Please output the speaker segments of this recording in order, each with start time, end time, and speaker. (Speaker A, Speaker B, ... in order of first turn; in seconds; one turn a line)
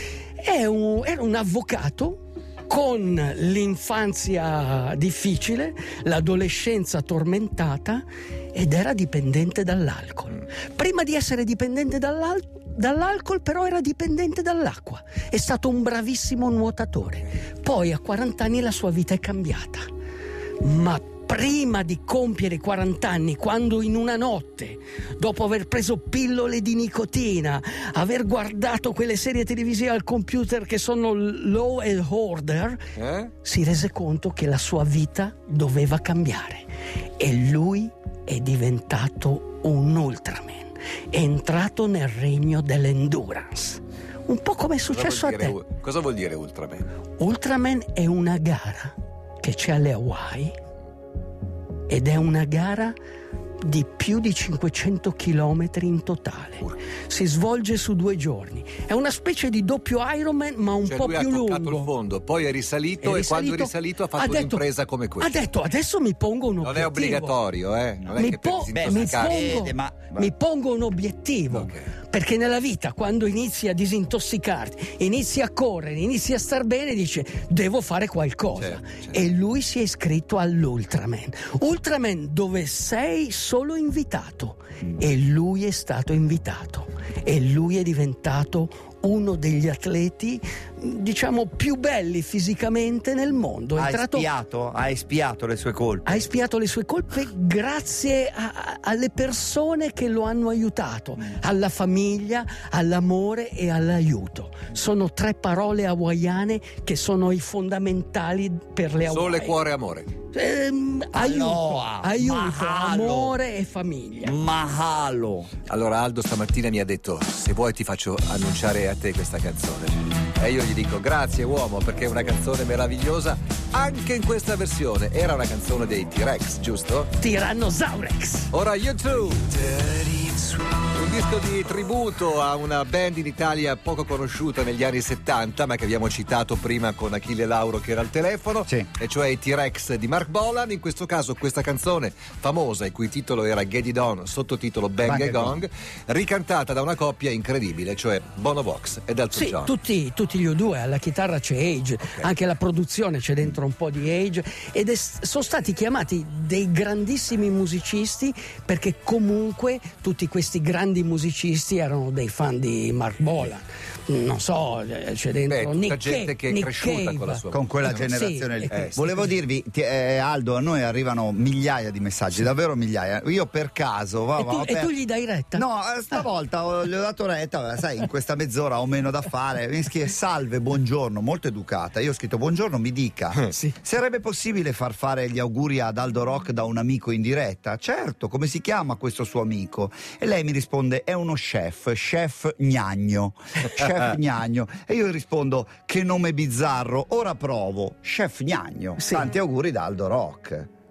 Speaker A: 0.4-19.9
Speaker A: 20.6-32.9
Speaker B: 33.0-33.3
Speaker A: 33.4-45.6
Speaker B: 44.9-47.0
Speaker A: 47.2-50.5
Speaker A: 51.9-53.0
Speaker A: 53.6-61.9
Speaker B: 60.8-65.4
Speaker A: 63.0-67.4
Speaker B: 66.6-69.5
Speaker C: 68.1-70.3
Speaker A: 68.1-94.3
Speaker B: 71.5-71.9
Speaker B: 78.5-79.2
Speaker C: 93.8-96.3
Speaker A: 96.0-109.6
Speaker B: 109.0-110.1
Speaker A: 110.3-114.4
Speaker C: 111.1-113.4
Speaker C: 114.2-115.5
Speaker B: 115.7-127.1
Speaker A: 127.2-128.5
Speaker B: 128.5-149.7
Speaker C: 145.0-145.6
Speaker A: 149.3-169.3
Speaker B: 165.5-168.1
Speaker C: 167.5-174.9
Speaker B: 168.7-169.0
Speaker A: 174.4-176.3
Speaker C: 175.5-200.7
Speaker A: 199.0-199.3